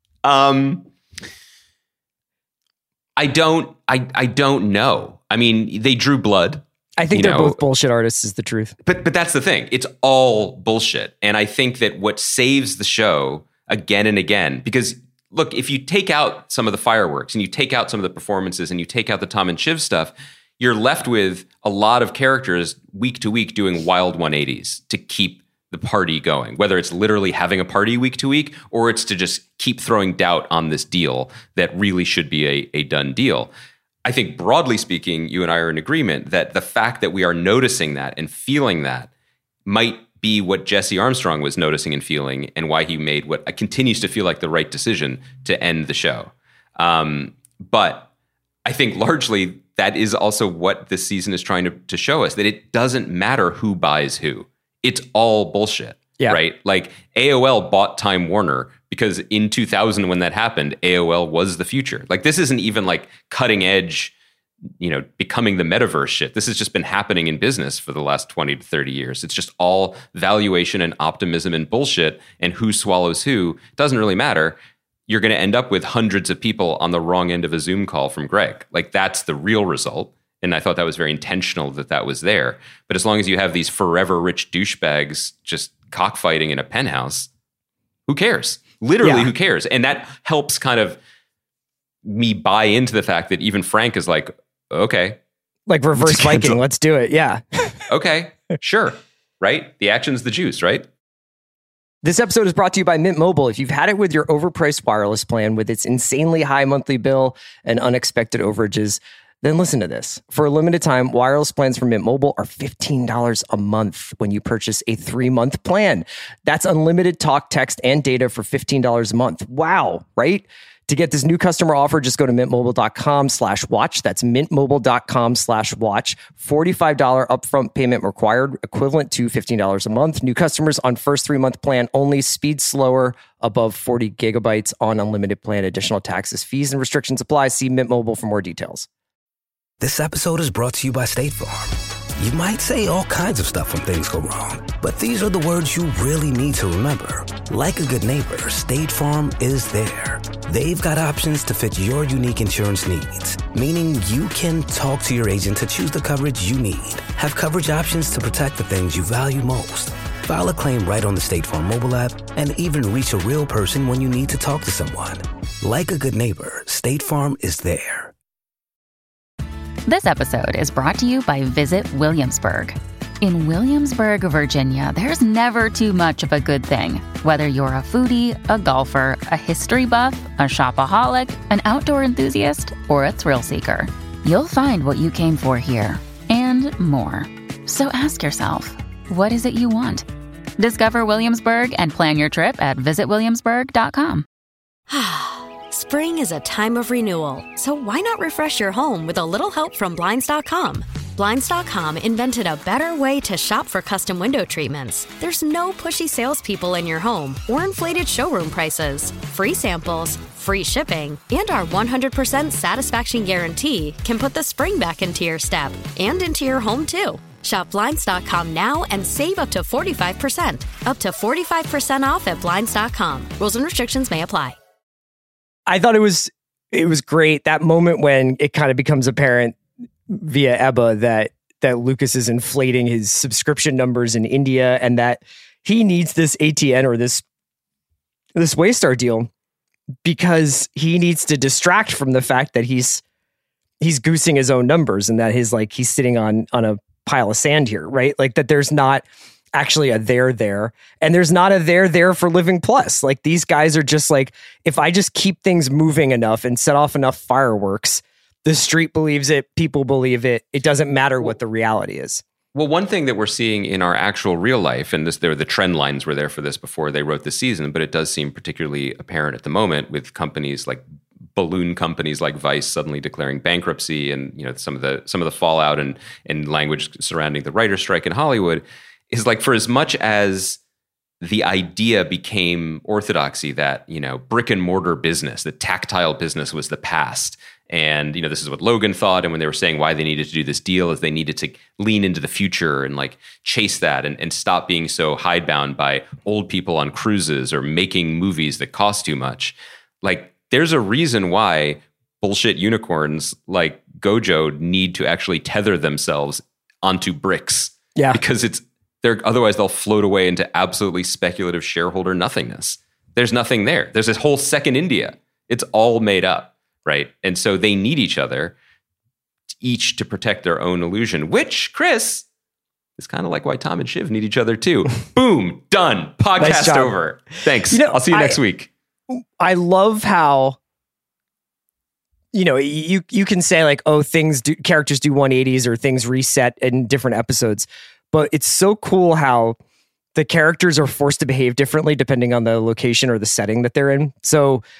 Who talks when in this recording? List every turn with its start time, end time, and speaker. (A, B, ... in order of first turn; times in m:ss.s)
0:00.2-0:00.8 A
0:03.2-0:07.6 A
0:07.0-0:08.7 B
0:08.8-0:33.5 A
0:34.0-0:39.1 A
0:39.6-0:48.1 A
0:48.6-1:04.1 A
1:04.8-1:27.3 A
1:28.1-1:31.0 A
1:29.0-1:29.3 B
1:32.0-1:35.2 A
1:35.7-1:37.8 B
1:35.9-1:36.6 A
1:37.9-1:40.8 A
1:42.0-2:18.9 B
2:19.8-2:48.1 C
2:49.8-3:10.0 D
3:10.6-3:14.2 D
3:14.9-3:44.6 E
3:45.7-3:49.6 B
3:50.1-3:57.2 B
3:58.4-3:59.3 B
4:00.0-4:03.0 B
4:03.8-4:22.2 B
4:22.5-4:30.8 A
4:31.3-4:40.6 A
4:41.2-5:18.5 A
5:19.6-5:22.2 A
5:23.0-5:28.7 A
5:26.4-5:26.9 B
5:27.7-5:28.4 B
5:29.1-5:30.6 B
5:32.3-5:39.6 B
5:40.1-5:44.6 B